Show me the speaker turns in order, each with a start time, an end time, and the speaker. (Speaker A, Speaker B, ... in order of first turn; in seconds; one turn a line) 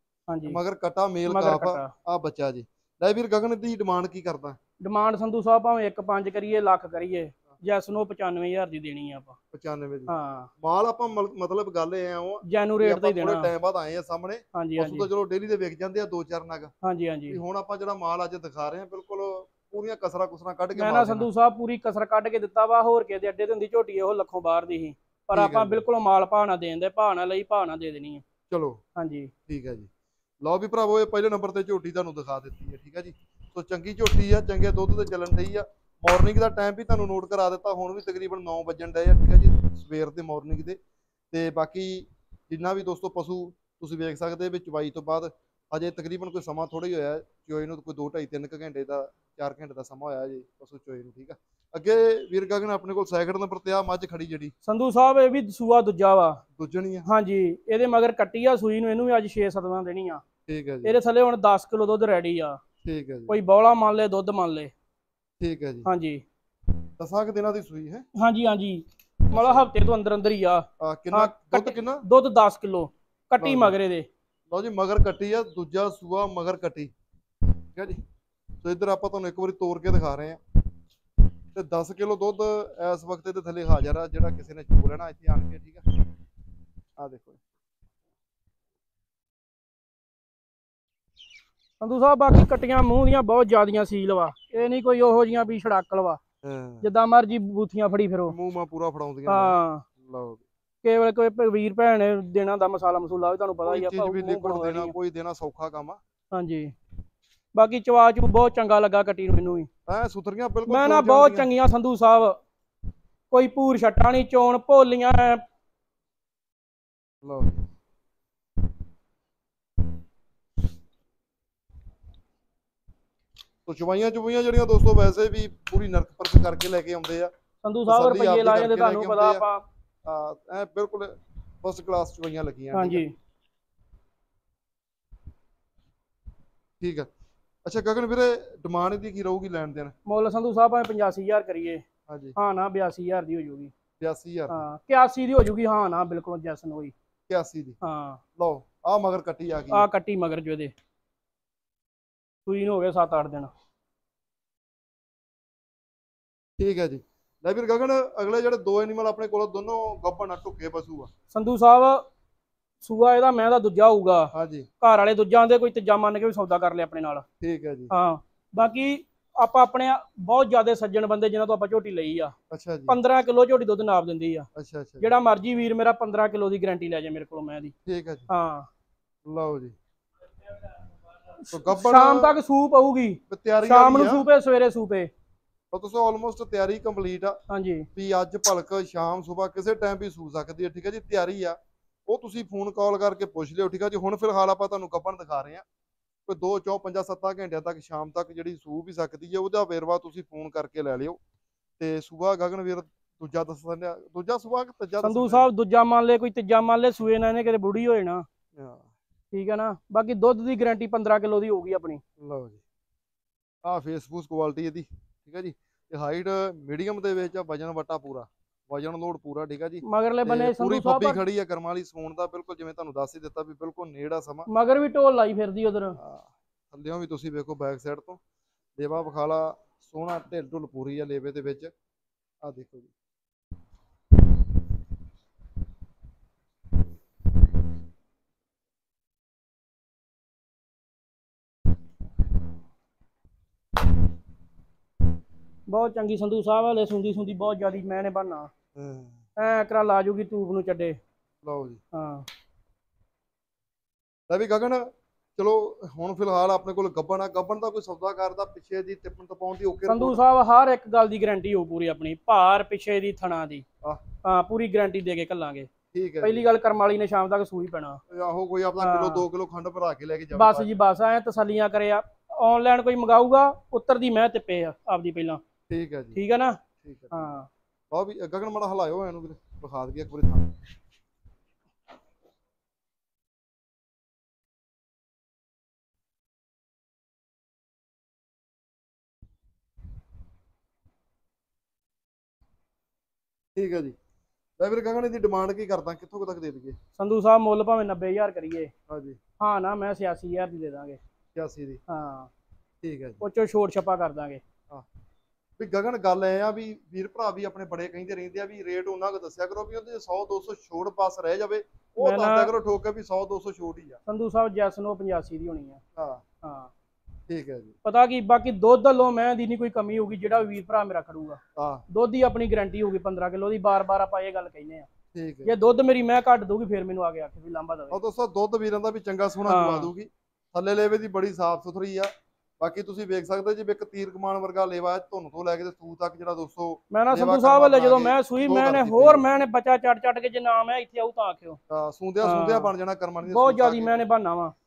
Speaker A: 0.3-0.6
Speaker B: 0.5-4.6
Speaker A: 1.3-1.9
Speaker A: 4.8-9.3
Speaker B: 9.5-16.7
Speaker A: 10.1-10.5
Speaker A: 12.4-13.5
Speaker A: 14.5-15.1
Speaker A: 16.8-17.4
Speaker B: 17.3-21.3
Speaker A: 20.8-28.2
Speaker B: 25.3-25.8
Speaker B: 28.5-28.8
Speaker A: 28.9-29.3
Speaker B: 29.5-29.9
Speaker B: 30.4-40.8
Speaker B: 41.3-54.5
Speaker A: 54.6-56.4
Speaker B: 56.6-57.1
Speaker A: 57.0-60.2
Speaker B: 60.5-61.0
Speaker A: 60.8-62.6
Speaker B: 62.8-63.4
Speaker A: 63.3-64.7
Speaker B: 65.4-65.9
Speaker A: 65.8-66.2
Speaker B: 67.0-68.0
Speaker A: 68.1-74.1
Speaker B: 69.3-69.7
Speaker B: 70.8-72.0
Speaker B: 73.4-73.8
Speaker B: 74.5-76.9
Speaker B: 77.7-78.0
Speaker B: 78.6-80.4
Speaker B: 81.5-85.9
Speaker B: 87.0-87.4
Speaker A: 91.8-96.2
Speaker B: 96.4-96.8
Speaker A: 96.8-98.3
Speaker B: 98.3-100.4
Speaker A: 99.2-99.8
Speaker A: 100.8-104.9
Speaker B: 103.6-106.0
Speaker A: 106.3-106.7
Speaker A: 107.5-109.7
Speaker B: 109.9-111.5
Speaker A: 110.7-112.4
Speaker A: 113.3-115.4
Speaker B: 117.2-117.6
Speaker B: 123.7-127.3
Speaker A: 127.6-129.6
Speaker B: 127.9-129.4
Speaker B: 130.0-133.0
Speaker A: 132.7-133.1
Speaker B: 136.8-137.1
Speaker B: 137.7-139.9
Speaker A: 140.1-141.8
Speaker B: 142.1-142.3
Speaker A: 142.3-143.7
Speaker B: 144.0-144.6
Speaker A: 144.5-146.9
Speaker B: 147.3-147.8
Speaker A: 147.8-148.2
Speaker B: 148.4-149.8
Speaker A: 149.7-150.7
Speaker A: 152.4-153.5
Speaker B: 156.6-161.1
Speaker A: 161.3-162.0
Speaker A: 162.8-167.2
Speaker B: 164.3-164.7
Speaker B: 167.4-167.9
Speaker A: 167.9-172.3
Speaker B: 172.5-173.0
Speaker A: 172.9-174.5
Speaker B: 174.6-175.1
Speaker A: 175.0-177.7
Speaker B: 177.8-178.3
Speaker A: 178.3-178.7
Speaker B: 179.2-179.7
Speaker A: 181.4-185.1
Speaker B: 181.5-182.4
Speaker B: 183.3-184.2
Speaker B: 185.7-187.4
Speaker A: 187.5-187.9
Speaker B: 187.9-195.6
Speaker B: 196.2-201.2
Speaker B: 201.8-205.4
Speaker A: 205.0-208.2
Speaker B: 208.6-208.9
Speaker A: 209.3-212.0
Speaker B: 212.2-212.6
Speaker B: 213.6-224.5
Speaker A: 219.8-221.2
Speaker A: 224.5-226.0
Speaker B: 226.0-228.2
Speaker B: 228.8-231.7
Speaker B: 232.4-232.9
Speaker A: 245.7-248.5
Speaker B: 248.7-249.2
Speaker A: 249.4-251.0
Speaker B: 251.4-251.8
Speaker A: 251.9-252.3
Speaker B: 254.3-260.2
Speaker A: 259.9-263.6
Speaker A: 264.2-265.7
Speaker B: 265.9-266.4
Speaker A: 266.2-268.0
Speaker B: 268.1-270.7
Speaker A: 268.8-269.2
Speaker A: 270.3-275.4
Speaker B: 275.7-276.2
Speaker A: 276.1-276.6
Speaker B: 276.8-277.2
Speaker A: 277.1-277.5
Speaker B: 277.9-280.6
Speaker B: 293.5-293.9
Speaker B: 294.6-296.8
Speaker A: 297.0-298.7
Speaker B: 298.9-299.2
Speaker A: 299.4-301.0
Speaker B: 301.3-301.8
Speaker A: 301.9-302.3
Speaker B: 302.8-303.2
Speaker A: 303.2-304.4
Speaker B: 305.6-314.0
Speaker A: 312.0-312.5
Speaker A: 314.1-315.8
Speaker B: 315.9-316.2
Speaker A: 316.4-316.7
Speaker B: 317.3-317.7
Speaker A: 317.8-324.9
Speaker B: 321.6-321.8
Speaker B: 325.1-325.6
Speaker A: 325.4-328.0
Speaker B: 327.9-339.2
Speaker A: 329.4-329.9
Speaker A: 336.9-341.6
Speaker B: 341.7-344.0
Speaker A: 342.2-342.7
Speaker A: 343.2-344.5